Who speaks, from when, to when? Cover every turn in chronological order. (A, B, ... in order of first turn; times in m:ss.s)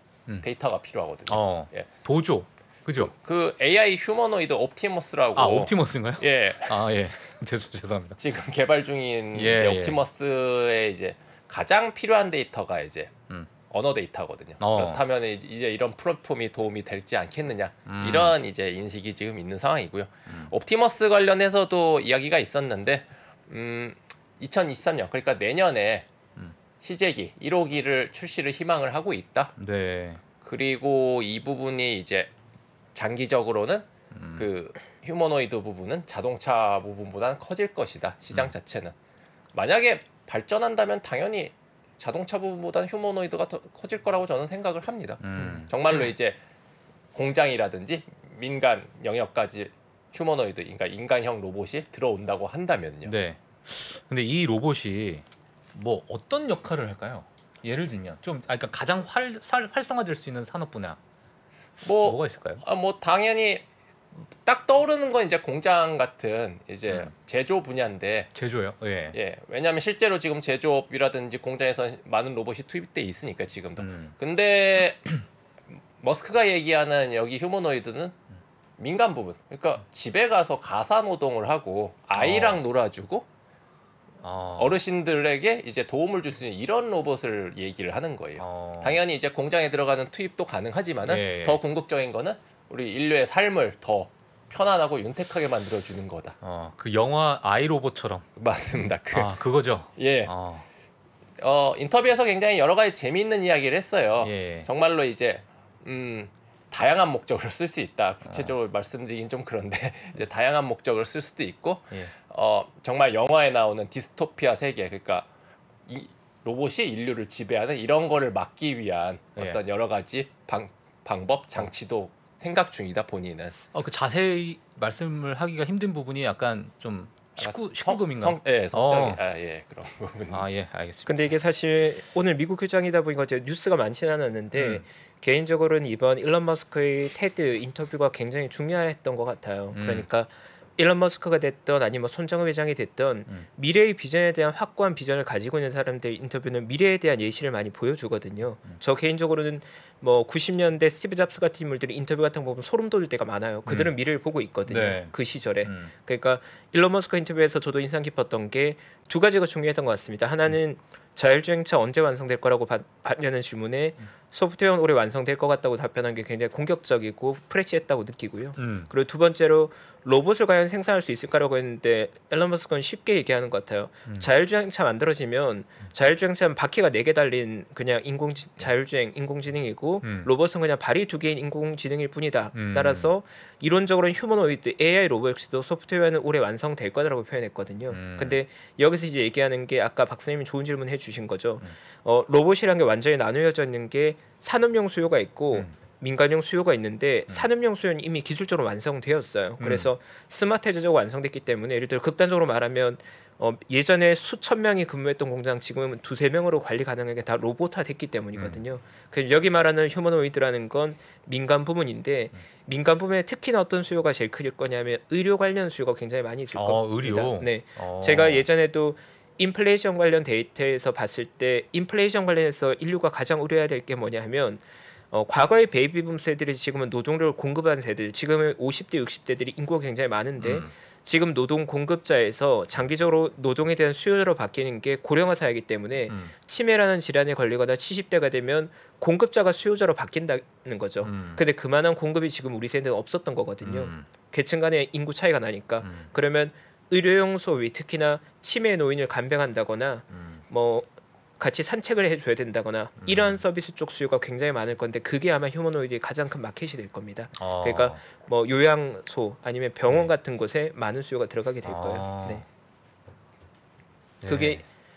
0:00.4-0:01.9 A
0:01.3-0:03.1 B
0:03.0-0:06.8 A
0:05.4-0:08.2 B
0:08.2-0:26.1 A
0:09.3-0:10.0 B
0:14.6-0:15.0 B
0:17.9-0:18.4 B
0:20.3-0:20.5 B
0:26.8-0:29.6 A
0:29.6-0:30.2 B
0:30.4-0:32.3 A
0:33.0-0:38.9 A
0:34.1-0:34.5 B
0:39.5-0:46.4 A
0:45.2-0:45.9 B
0:47.1-0:53.1 A
0:53.0-1:01.0 B
1:01.8-1:03.6 A
1:02.0-1:02.6 B
1:04.3-1:08.3 A
1:08.4-1:09.2 B
1:09.1-1:15.2 A
1:13.8-1:14.1 B
1:16.0-1:18.2 A
1:18.8-1:23.3 A
1:22.2-1:22.6 B
1:24.2-1:24.8 B
1:24.6-1:36.4 A
1:28.4-1:29.0 B
1:31.0-1:31.6 B
1:36.4-1:38.3 B
1:38.4-1:39.4 A
1:39.1-1:40.7 B
1:40.0-1:40.3 A
1:41.4-1:55.3 A
1:44.2-1:44.7 B
1:48.3-1:48.6 B
1:55.9-2:03.6 A
2:03.7-2:09.2 B
2:07.4-2:10.5 A
2:10.3-2:11.3 B
2:11.1-4:10.9 C
2:14.6-2:14.8 B
2:19.7-2:20.1 B
2:33.7-2:33.9 B
2:34.7-2:35.9 B
2:48.6-2:48.9 B
3:00.0-3:00.3 B
3:02.6-3:03.1 B
3:07.9-3:08.4 B
3:19.6-3:19.9 B
3:28.4-3:28.6 B
3:36.6-3:38.5 B
3:50.4-3:50.7 B
3:56.1-3:56.3 B
4:01.0-4:01.4 B
4:03.6-4:04.1 B
4:05.8-4:06.1 B
4:10.1-4:10.4 B
4:11.4-4:22.4 C
4:13.0-4:13.4 B
4:17.4-4:18.0 B
4:21.6-4:22.4 B
4:24.2-4:24.6 B
4:24.3-4:24.6 C